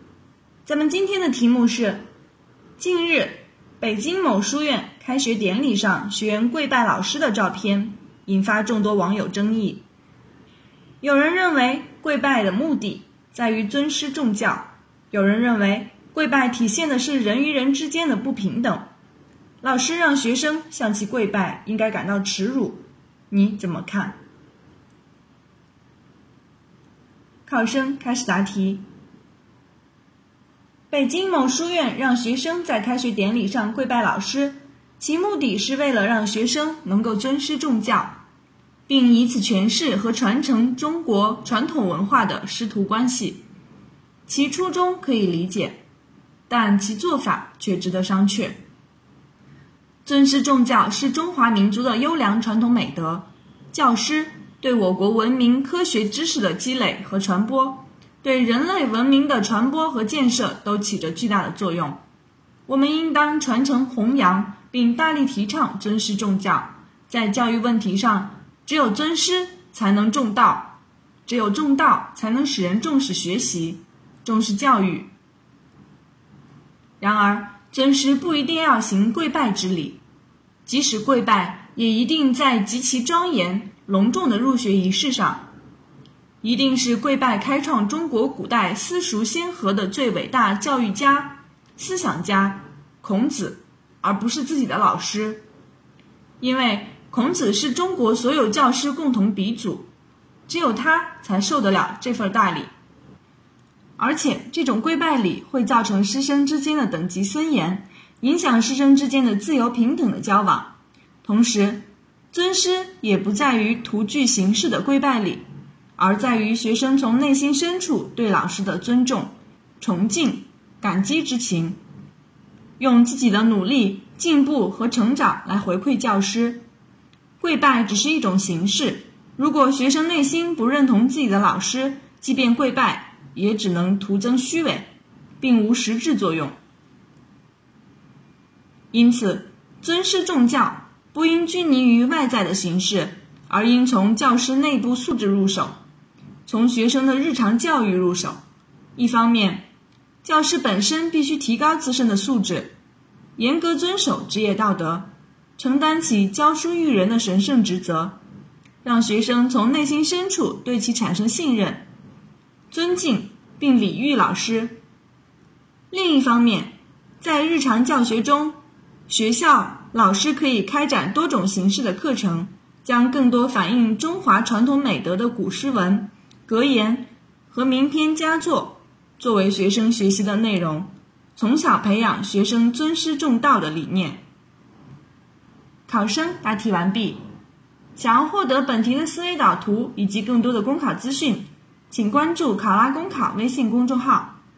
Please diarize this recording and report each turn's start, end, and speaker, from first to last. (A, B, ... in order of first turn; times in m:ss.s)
0:00.6-0:02.0 A
0:02.8-0:09.8 A
0:11.0-0:18.8 A
0:19.6-0:24.2 A
0:27.5-0:28.8 A
0:30.9-0:38.2 A
0:38.9-0:43.4 A
0:44.3-0:45.8 A
0:46.5-0:48.6 A
0:50.0-1:02.0 A
1:02.7-1:15.1 A
1:17.0-1:20.0 A
1:20.6-1:25.5 A
1:26.4-1:35.4 A
1:36.4-1:39.9 A
1:40.5-1:42.7 A
1:44.0-1:55.4 A
1:56.0-2:01.8 A
2:02.8-2:06.6 A
2:07.4-2:14.9 A
2:15.4-2:16.6 A
2:18.9-2:25.8 A
2:26.5-2:28.4 A
2:29.0-2:29.7 A
2:30.2-2:32.8 A
2:33.4-2:38.2 A
2:38.8-2:41.9 A
2:42.7-2:44.8 A
2:45.9-3:04.2 A
3:05.9-3:07.2 A
3:08.0-3:14.4 A